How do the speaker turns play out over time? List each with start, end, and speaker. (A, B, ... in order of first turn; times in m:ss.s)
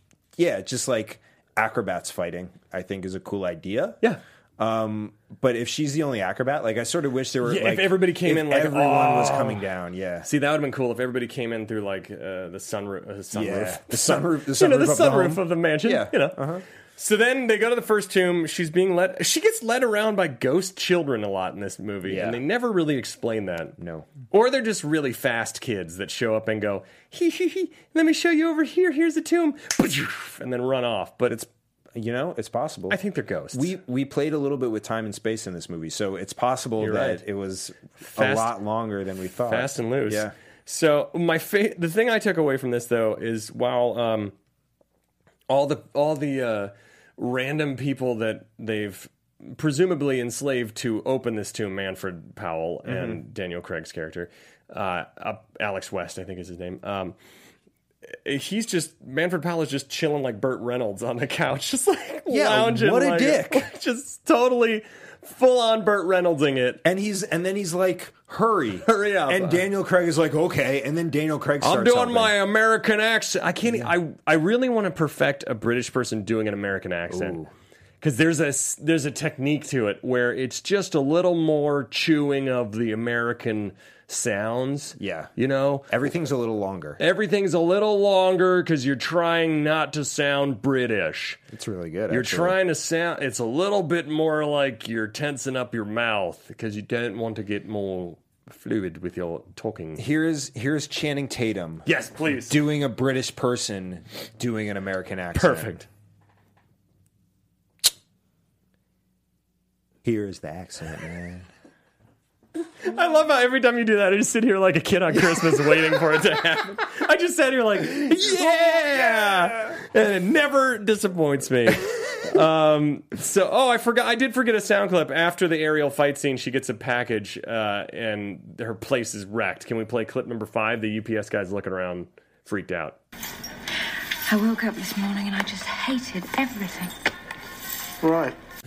0:00.4-0:04.0 A
0:04.6-0:10.3 A
0:07.4-0:09.6 B
0:10.2-0:16.4 B
0:13.3-0:16.6 A
0:17.0-0:23.8 B
0:22.0-0:22.4 A
0:23.8-0:24.1 A
0:24.3-0:31.4 B
0:31.3-0:33.0 A
0:32.9-0:33.7 B
0:33.5-0:40.3 A
0:36.8-0:37.2 B
0:38.0-0:38.6 B
0:39.5-0:44.3 B
0:45.5-0:57.2 B
0:52.9-0:53.2 A
0:58.1-1:06.8 B
1:02.3-1:03.7 A
1:06.8-1:12.3 A
1:08.8-1:09.6 B
1:11.6-1:17.4 B
1:13.6-1:13.9 A
1:17.1-1:17.5 A
1:18.0-1:25.9 B
1:25.0-1:25.3 A
1:25.9-1:27.0 A
1:27.0-1:31.4 B
1:31.5-1:32.6 A
1:32.1-1:40.0 B
1:40.0-1:45.8 A
1:41.9-1:42.6 B
1:45.3-1:45.9 B
1:50.0-1:51.5 A
1:52.8-2:13.0 B
1:58.2-1:59.8 A
2:14.3-2:16.9 C